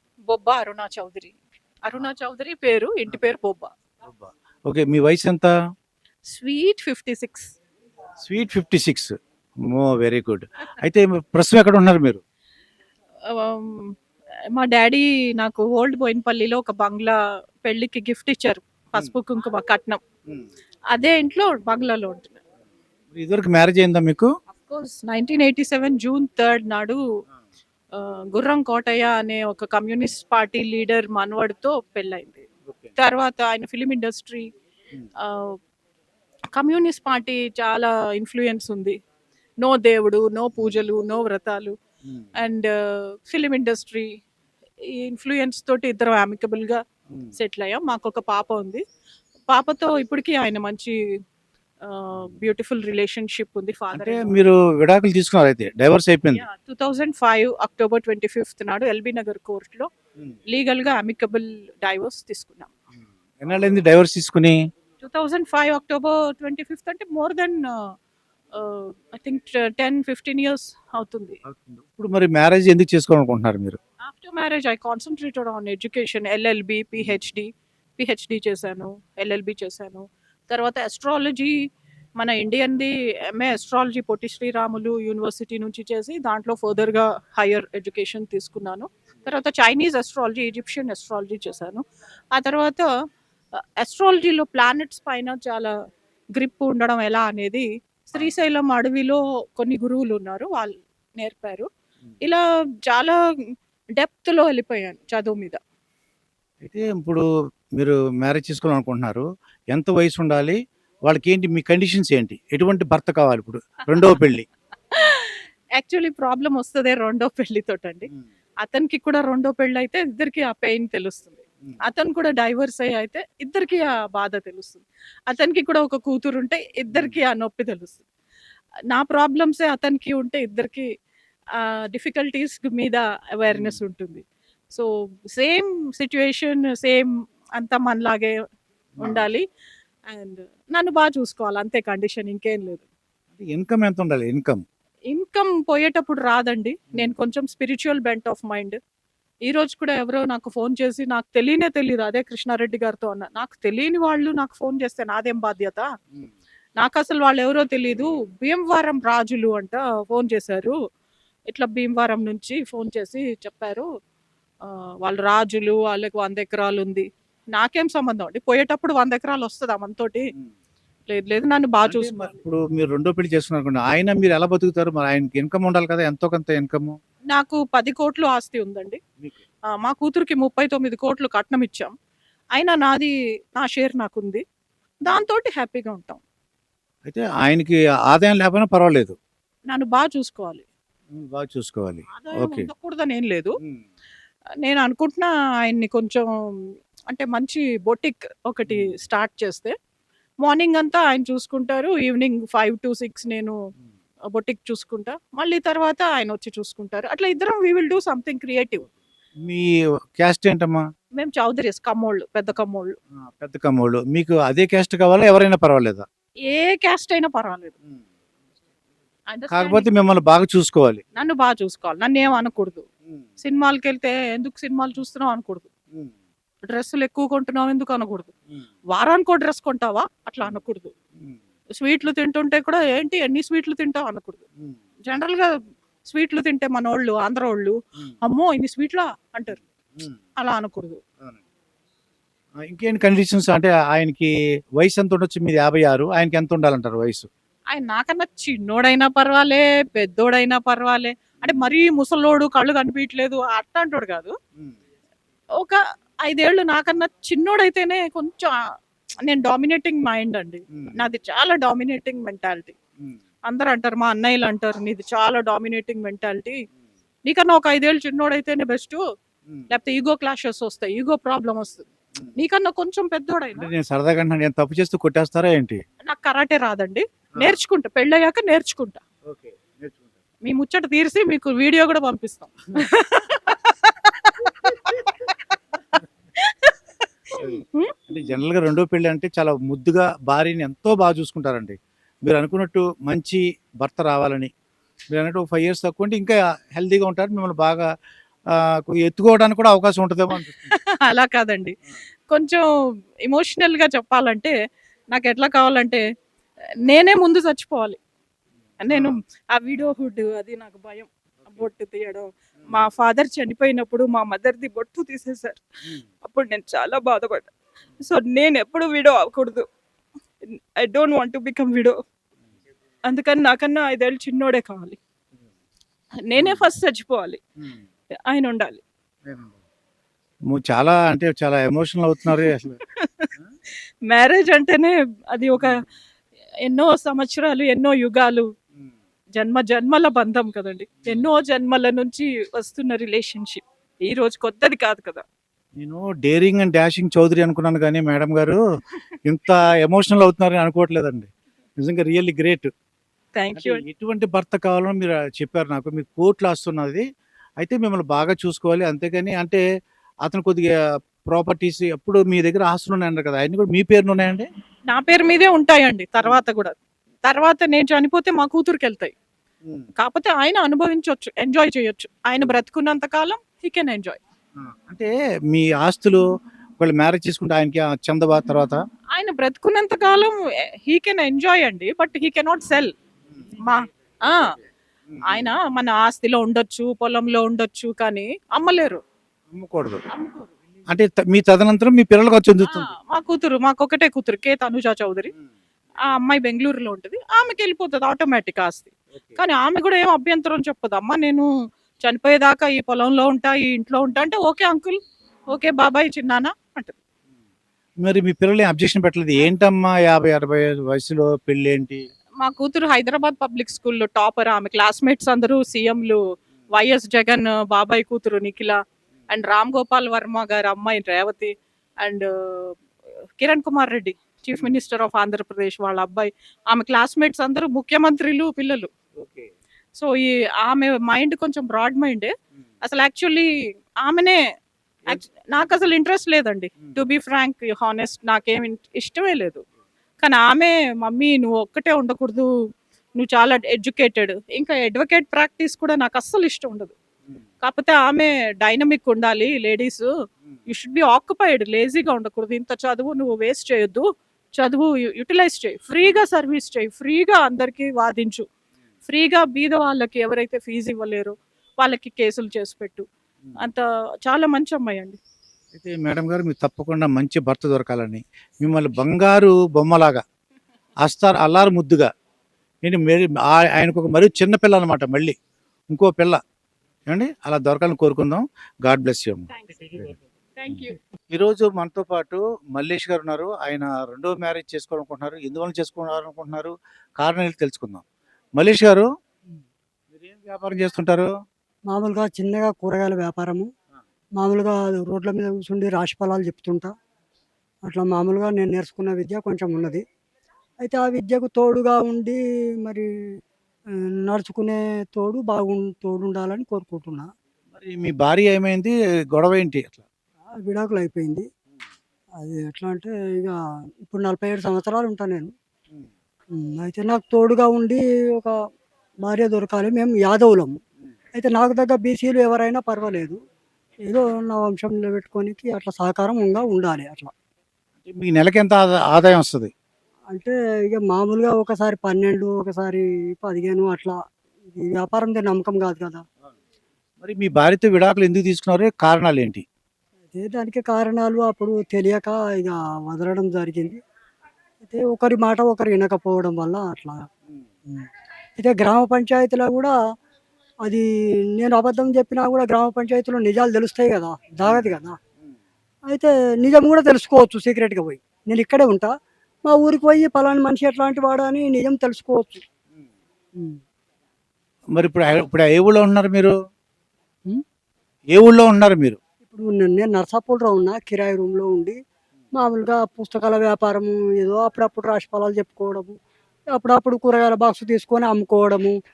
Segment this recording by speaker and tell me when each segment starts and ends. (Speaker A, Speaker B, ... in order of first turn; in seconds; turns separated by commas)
Speaker A: 0.3-3.7, Speaker B: 4.0-5.5, Speaker A: 6.3-7.5, Speaker B: 8.3-9.1, Speaker B: 9.7-12.2, Speaker A: 13.3-13.9, Speaker A: 14.5-20.0, Speaker A: 20.9-22.4, Speaker B: 23.1-24.3, Speaker A: 24.6-27.0, Speaker A: 27.9-32.4, Speaker B: 32.7-32.9, Speaker A: 33.0-34.5, Speaker A: 35.2-35.5, Speaker A: 36.5-39.0, Speaker A: 39.6-41.7, Speaker A: 42.4-44.1, Speaker A: 44.9-46.8, Speaker A: 47.3-48.8, Speaker A: 49.5-50.9, Speaker A: 51.8-54.4, Speaker B: 53.9-56.4, Speaker A: 56.4-59.9, Speaker A: 60.5-62.7, Speaker B: 63.4-64.6, Speaker A: 65.0-67.9, Speaker A: 68.5-71.4, Speaker B: 71.4-73.8, Speaker A: 74.0-81.5, Speaker B: 77.0-77.3, Speaker A: 82.2-92.9, Speaker A: 93.8-95.7, Speaker A: 96.3-101.7, Speaker A: 102.2-103.2, Speaker A: 104.0-105.6, Speaker B: 106.6-107.2, Speaker B: 107.8-114.4, Speaker A: 114.9-118.1, Speaker A: 118.6-128.0, Speaker B: 126.9-127.2, Speaker A: 128.9-130.9, Speaker A: 131.6-138.3, Speaker B: 133.5-133.8, Speaker B: 139.0-139.3, Speaker A: 139.0-139.4, Speaker A: 140.1-142.8, Speaker B: 143.3-144.6, Speaker A: 145.1-148.8, Speaker A: 149.4-155.8, Speaker A: 156.8-160.7, Speaker A: 161.5-163.8, Speaker A: 164.6-170.3, Speaker A: 171.1-172.4, Speaker B: 171.8-177.0, Speaker A: 177.3-179.0, Speaker A: 179.7-181.9, Speaker A: 182.5-184.4, Speaker A: 185.0-186.2, Speaker B: 187.1-189.2, Speaker A: 189.7-190.6, Speaker B: 191.1-192.7, Speaker A: 192.1-193.5, Speaker A: 194.6-196.2, Speaker A: 197.1-199.7, Speaker A: 200.4-203.5, Speaker A: 204.3-208.8, Speaker B: 209.4-210.8, Speaker A: 211.2-212.9, Speaker B: 213.4-216.0, Speaker A: 216.5-217.7, Speaker A: 219.3-219.9, Speaker B: 219.5-221.0, Speaker A: 221.2-222.8, Speaker A: 223.4-225.7, Speaker A: 226.6-228.3, Speaker A: 228.9-230.9, Speaker A: 231.8-234.4, Speaker A: 235.1-235.5, Speaker A: 236.0-239.6, Speaker A: 240.4-241.0, Speaker B: 242.7-247.3, Speaker A: 247.7-254.3, Speaker A: 255.6-258.6, Speaker A: 259.2-262.7, Speaker B: 260.7-261.0, Speaker A: 263.5-266.6, Speaker A: 267.2-269.0, Speaker A: 269.7-271.8, Speaker A: 272.4-273.7, Speaker B: 273.5-275.8, Speaker A: 276.0-279.0, Speaker B: 279.2-280.1, Speaker A: 280.4-285.1, Speaker A: 286.4-286.7, Speaker A: 287.3-287.9, Speaker B: 287.4-294.5, Speaker B: 295.1-297.8, Speaker B: 298.9-300.7, Speaker A: 300.4-301.8, Speaker A: 302.3-302.6, Speaker A: 303.2-304.5, Speaker A: 305.1-306.0, Speaker A: 306.9-308.0, Speaker A: 308.8-315.6, Speaker B: 308.9-309.1, Speaker A: 316.2-319.6, Speaker A: 320.8-322.0, Speaker A: 323.1-325.0, Speaker A: 326.3-327.4, Speaker B: 326.4-326.6, Speaker B: 327.6-327.8, Speaker A: 328.3-328.8, Speaker B: 329.2-329.6, Speaker B: 330.5-332.8, Speaker A: 332.2-333.3, Speaker A: 334.1-335.7, Speaker B: 335.6-335.9, Speaker A: 336.6-338.5, Speaker A: 339.4-345.2, Speaker B: 345.8-348.6, Speaker B: 349.2-351.3, Speaker B: 351.8-352.7, Speaker A: 353.3-353.8, Speaker B: 353.5-357.0, Speaker B: 357.6-359.6, Speaker B: 360.2-360.7, Speaker B: 361.3-364.4, Speaker A: 364.9-369.1, Speaker A: 370.0-374.2, Speaker B: 374.6-376.2, Speaker B: 376.8-378.8, Speaker A: 379.1-380.3, Speaker A: 380.9-382.9, Speaker A: 383.6-384.4, Speaker B: 385.1-385.5, Speaker A: 385.3-389.0, Speaker B: 389.5-390.0, Speaker A: 390.1-390.5, Speaker B: 390.9-392.9, Speaker A: 392.6-395.3, Speaker A: 396.1-401.4, Speaker A: 402.0-405.0, Speaker A: 405.5-406.9, Speaker B: 408.0-412.0, Speaker A: 412.4-416.2, Speaker A: 416.7-422.8, Speaker A: 423.4-428.9, Speaker B: 429.2-429.5, Speaker A: 429.9-433.5, Speaker A: 434.0-434.4, Speaker A: 435.1-439.6, Speaker A: 440.2-442.5, Speaker A: 443.1-446.9, Speaker A: 447.6-450.1, Speaker A: 450.7-454.1, Speaker A: 454.6-458.4, Speaker A: 459.1-463.0, Speaker A: 463.6-465.2, Speaker B: 465.7-470.2, Speaker B: 471.0-472.1, Speaker B: 472.8-475.3, Speaker B: 475.9-476.4, Speaker B: 477.1-480.2, Speaker A: 479.5-480.0, Speaker A: 480.6-481.0, Speaker B: 481.3-488.0, Speaker B: 488.6-489.0, Speaker B: 490.1-491.3, Speaker C: 491.9-493.6, Speaker C: 494.4-496.9, Speaker C: 497.9-500.0, Speaker C: 500.8-503.1, Speaker C: 504.2-507.3, Speaker B: 507.7-510.0, Speaker C: 510.6-511.4, Speaker C: 512.4-515.5, Speaker C: 516.5-518.5, Speaker C: 519.2-520.7, Speaker C: 521.4-523.4, Speaker C: 524.1-527.3, Speaker B: 528.0-529.7, Speaker C: 530.3-534.1, Speaker C: 534.7-536.2, Speaker B: 537.2-539.6, Speaker C: 540.3-544.0, Speaker C: 544.8-547.2, Speaker C: 548.6-549.9, Speaker C: 551.5-555.2, Speaker B: 554.6-554.9, Speaker C: 556.1-559.1, Speaker C: 559.6-562.6, Speaker B: 565.0-566.5, Speaker B: 568.3-569.2, Speaker C: 569.4-571.9, Speaker C: 572.5-576.1, Speaker C: 576.7-578.9